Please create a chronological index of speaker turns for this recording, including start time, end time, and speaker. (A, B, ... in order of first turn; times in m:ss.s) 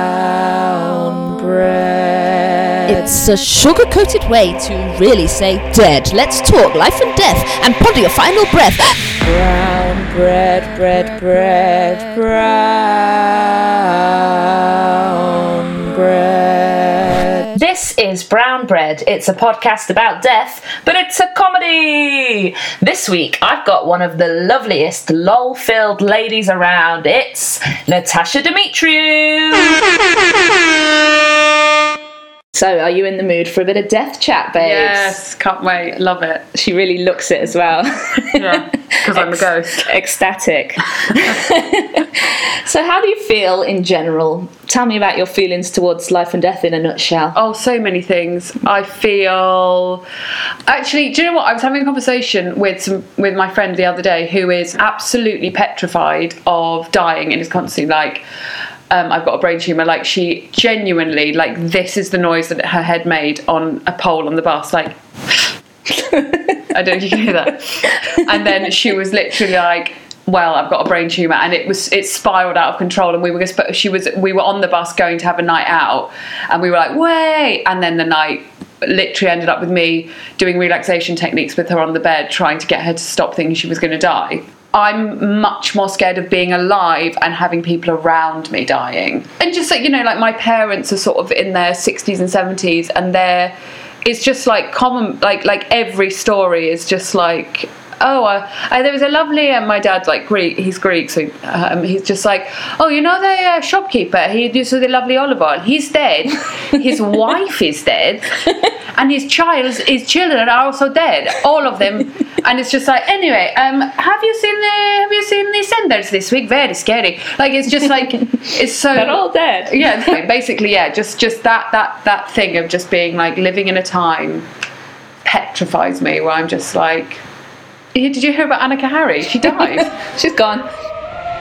0:00.9-0:02.0 A
0:01.2-0:01.5 B
0:02.9-0:09.2 B
0:09.3-0:13.1 A
0:10.8-0:11.1 B
0:15.6-0:16.7 A
0:17.5-0:29.8 C
0:32.5-0:35.2 C
0:34.6-0:36.4 D
0:36.5-0:47.4 C
0:38.4-0:39.8 D
0:47.4-0:50.0 D
0:50.7-0:58.2 D
0:58.9-1:05.0 D
1:06.0-1:06.6 C
1:06.7-2:04.5 D
1:58.9-2:00.2 C
2:05.2-2:07.2 D
2:08.0-2:09.9 D
2:09.4-2:10.7 C